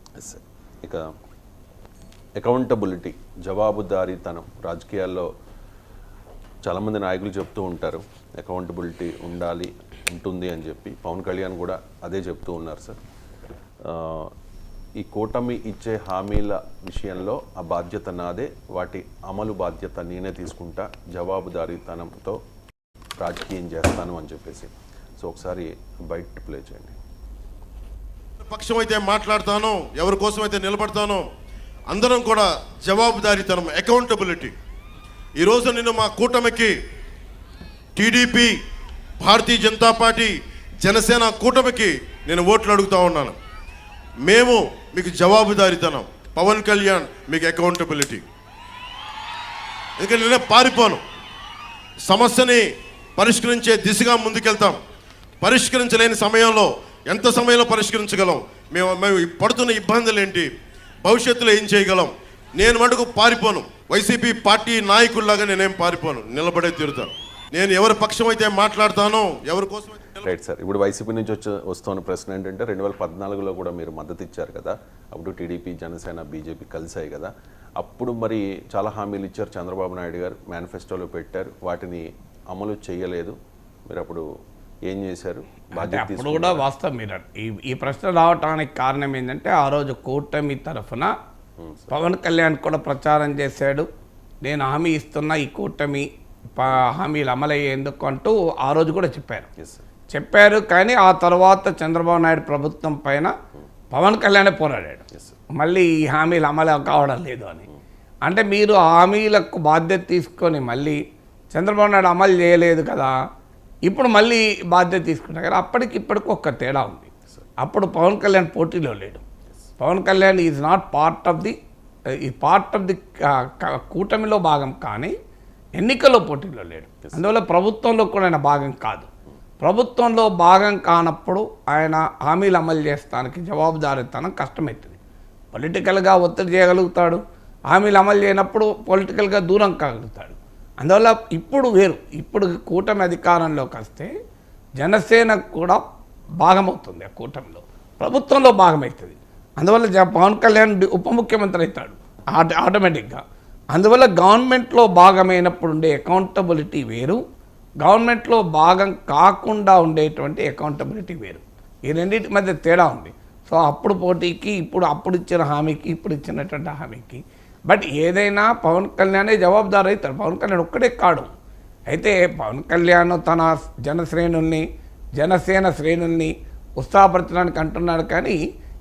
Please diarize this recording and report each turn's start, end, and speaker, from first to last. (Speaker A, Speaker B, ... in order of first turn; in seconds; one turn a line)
Speaker A: 0.2-1.1
Speaker A: 2.4-5.3
Speaker A: 6.6-13.0
Speaker A: 13.8-14.3
Speaker A: 15.0-22.4
Speaker A: 23.2-27.0
Speaker B: 28.4-31.2
Speaker B: 31.9-34.5
Speaker B: 35.4-36.7
Speaker B: 38.0-38.5
Speaker B: 39.2-43.4
Speaker B: 44.2-48.2
Speaker B: 50.0-51.0
Speaker B: 52.1-52.6
Speaker B: 53.2-54.8
Speaker B: 55.4-60.5
Speaker B: 61.0-70.3
Speaker A: 70.2-83.3
Speaker A: 83.9-84.2
Speaker A: 84.9-86.6
Speaker C: 85.7-91.1
Speaker A: 91.6-92.0
Speaker C: 91.9-93.8
Speaker C: 94.4-99.5
Speaker A: 99.6-99.8
Speaker C: 100.1-103.3
Speaker C: 103.9-107.7
Speaker C: 108.2-111.0
Speaker C: 111.5-113.2
Speaker C: 113.8-117.1
Speaker C: 117.6-119.2
Speaker C: 119.8-121.5
Speaker C: 122.2-125.1
Speaker C: 125.8-129.1
Speaker C: 129.6-135.0
Speaker C: 135.5-144.1
Speaker C: 144.8-145.8
Speaker C: 146.4-157.2
Speaker C: 157.8-171.3
Speaker C: 171.9-174.6
Speaker C: 175.2-178.4